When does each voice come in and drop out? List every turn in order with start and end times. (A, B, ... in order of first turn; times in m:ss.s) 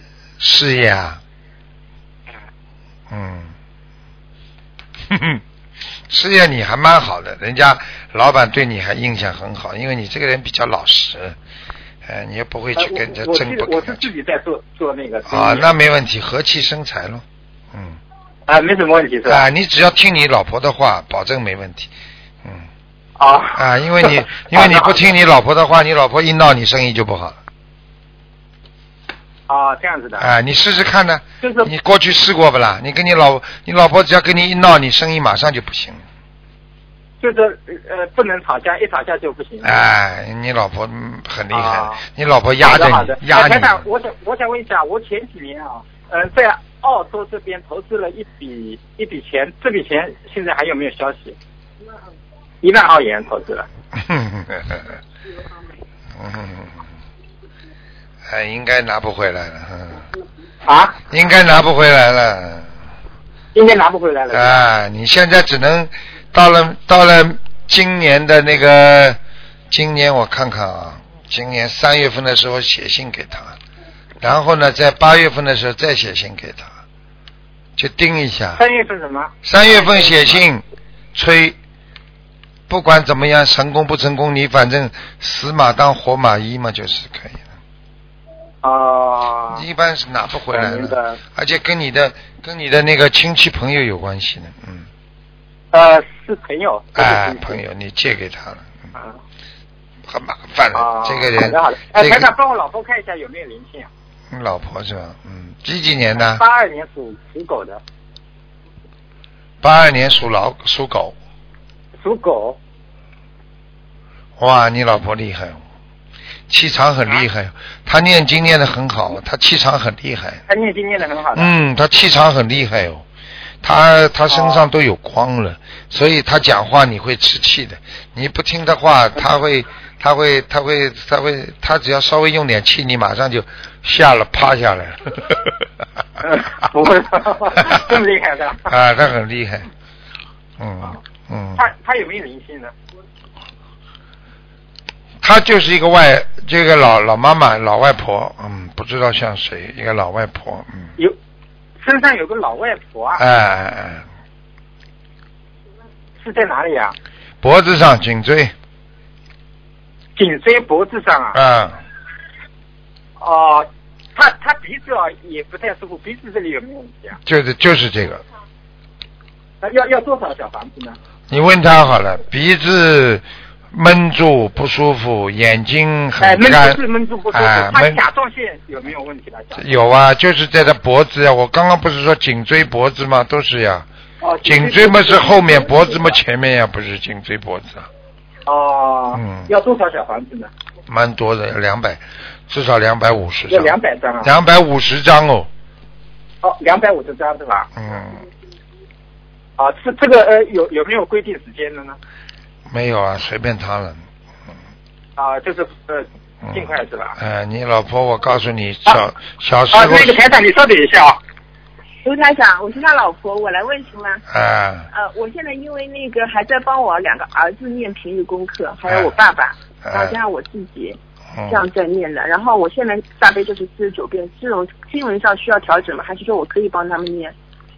0:00.4-0:01.2 A
0:03.1-0:03.5 A
0:05.1-0:05.4 A
0:06.1-0:11.4 A
0:12.0-0:14.0 A
0:12.8-0:15.7 B
0:15.3-0:18.0 A
0:18.5-0:19.4 B
0:19.3-0:21.9 A
0:23.2-0:25.0 B
0:23.6-0:27.4 A
0:29.5-0:30.3 B
0:30.2-0:36.0 A
0:31.4-0:31.7 B
0:37.2-0:39.8 B
0:39.6-0:43.8 A
0:41.5-0:42.0 B
0:42.6-0:51.4 B
0:52.6-0:53.7 B
0:54.0-0:55.0 A
0:56.2-0:56.8 A
0:58.3-1:00.0 A
1:00.7-1:01.0 B
1:01.1-1:02.7 A
1:03.5-1:04.6 B
1:04.3-1:09.2 A
1:09.7-1:13.6 A
1:14.2-1:16.7 A
1:17.8-1:18.6 A
1:18.6-1:20.4 B
1:19.4-1:21.6 A
1:22.7-1:27.4 A
1:28.6-1:29.6 B
1:29.5-1:34.9 A
1:30.5-1:31.2 B
1:35.7-1:37.6 B
1:37.0-1:38.7 A
1:40.1-1:42.3 A
1:40.7-1:43.9 B
1:44.3-1:46.4 A
1:46.1-1:47.8 B
1:49.6-1:51.2 A
1:52.0-1:52.6 B
1:54.4-1:55.6 A
1:56.5-2:00.4 A
2:00.5-2:01.5 B
2:01.3-2:03.0 A
2:03.6-2:15.6 A
2:04.3-2:04.7 B
2:16.2-2:18.7 B
2:18.7-2:19.6 A
2:20.6-2:21.6 A
2:21.6-2:22.7 B
2:25.2-2:30.9 A
2:31.8-2:33.2 B
2:33.2-2:34.0 A
2:36.2-2:37.0 B
2:37.4-2:38.5 A
2:40.2-2:41.4 B
2:41.3-2:41.8 A
2:43.2-2:47.2 B
2:47.2-2:48.2 A
2:49.6-2:51.0 B
2:51.3-2:56.8 A
2:56.2-2:59.8 B
2:57.3-2:58.0 A
2:59.6-3:03.9 A
3:04.2-3:06.2 B
3:04.4-3:07.9 A
3:08.5-3:10.5 B
3:09.1-3:09.5 A
3:10.9-3:15.5 A
3:13.5-3:14.3 B
3:16.4-3:17.7 B
3:17.8-3:18.2 A
3:19.6-3:22.0 B
3:22.7-3:24.0 A
3:25.2-3:27.2 B
3:26.5-3:30.2 A
3:29.7-3:31.2 B
3:32.0-3:34.2 C
3:34.3-3:34.9 A
3:34.9-3:47.4 C
3:38.9-3:39.1 A
3:39.8-3:40.2 A
3:41.4-3:41.6 A